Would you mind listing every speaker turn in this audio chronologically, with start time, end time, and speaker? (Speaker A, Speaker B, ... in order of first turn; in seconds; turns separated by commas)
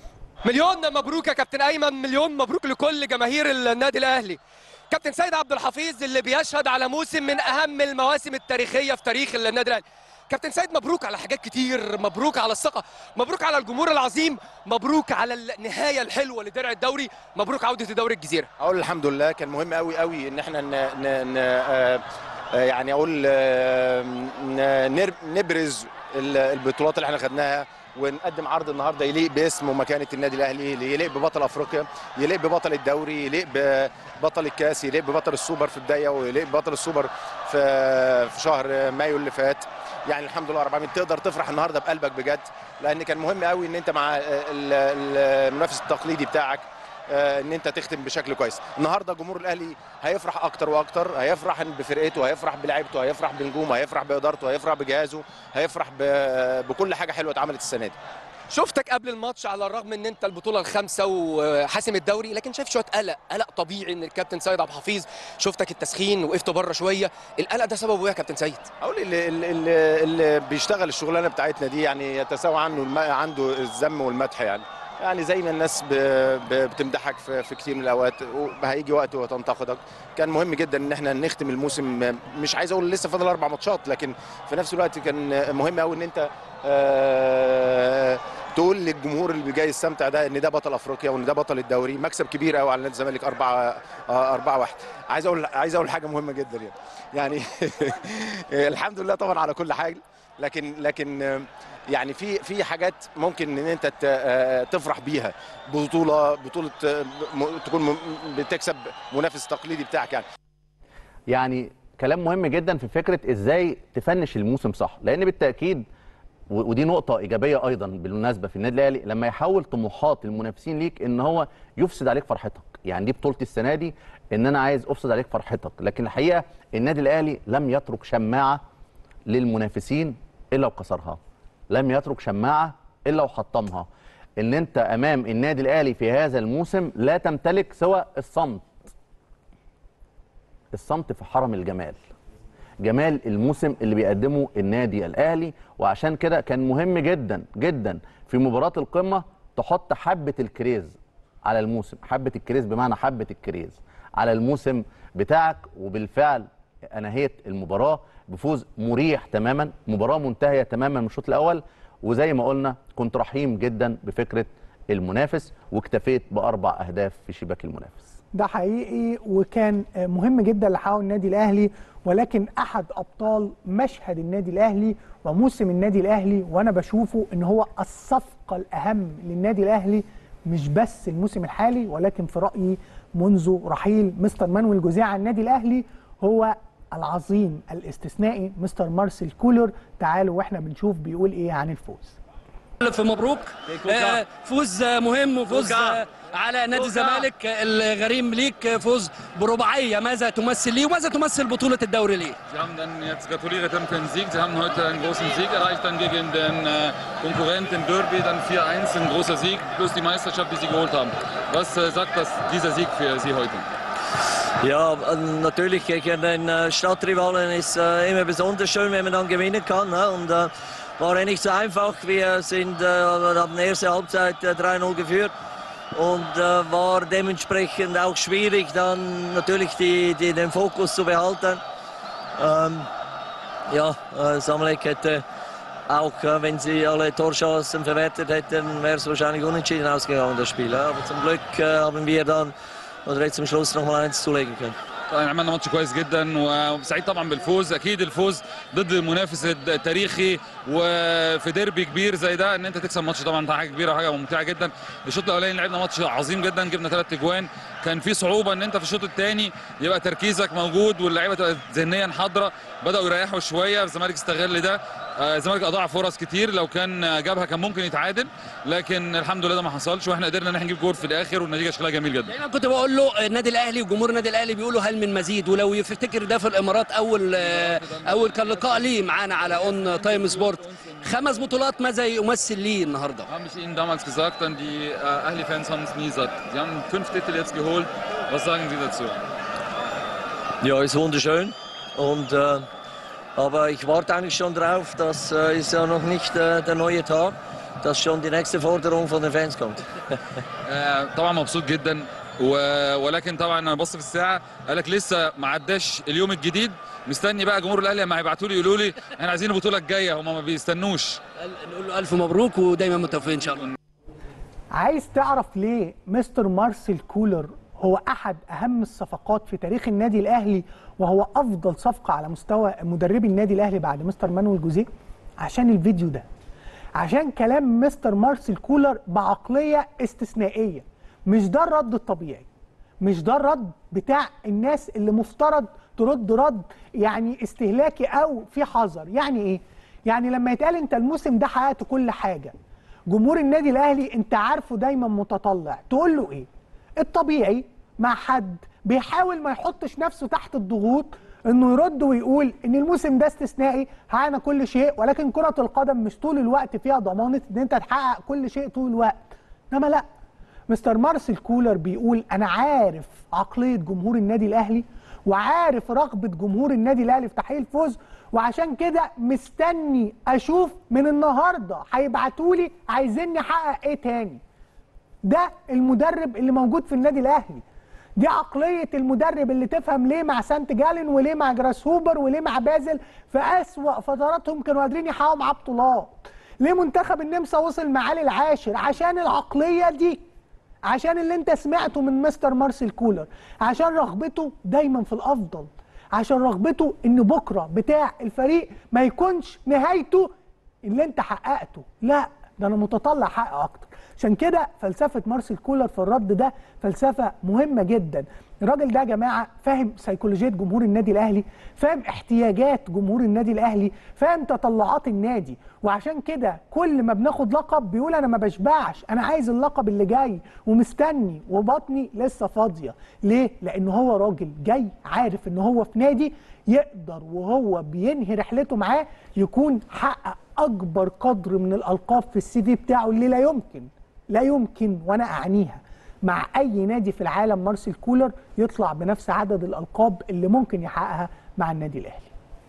Speaker A: 0.4-18.5, Speaker B: 18.6-58.0, Speaker A: 58.5-68.7, Speaker B: 68.8-110.3, Speaker C: 111.3-115.8, Speaker C: 116.5-128.6, Speaker C: 129.3-131.2, Speaker C: 131.7-133.9, Speaker C: 134.4-138.9, Speaker C: 140.7-142.0, Speaker C: 142.8-168.1, Speaker D: 168.3-192.2, Speaker E: 192.8-202.4, Speaker F: 193.8-194.2, Speaker F: 195.5-196.0, Speaker F: 196.8-197.3, Speaker G: 202.5-213.7, Speaker F: 214.6-225.3, Speaker F: 225.9-231.6, Speaker F: 232.4-232.9, Speaker F: 233.7-235.2, Speaker F: 235.9-242.5, Speaker F: 243.1-244.8, Speaker G: 245.1-272.4, Speaker E: 272.3-283.3, Speaker G: 277.3-281.4, Speaker G: 283.3-289.2, Speaker F: 290.6-292.7, Speaker F: 293.4-299.9, Speaker G: 300.7-311.2, Speaker E: 311.4-313.7, Speaker D: 314.7-324.9, Speaker D: 325.4-326.3, Speaker D: 327.0-332.4, Speaker D: 333.0-342.5, Speaker D: 343.1-346.5, Speaker D: 347.0-359.2, Speaker D: 359.7-360.1, Speaker D: 360.7-374.4, Speaker D: 375.2-377.6, Speaker D: 378.2-390.2, Speaker D: 390.9-400.3, Speaker D: 400.9-442.3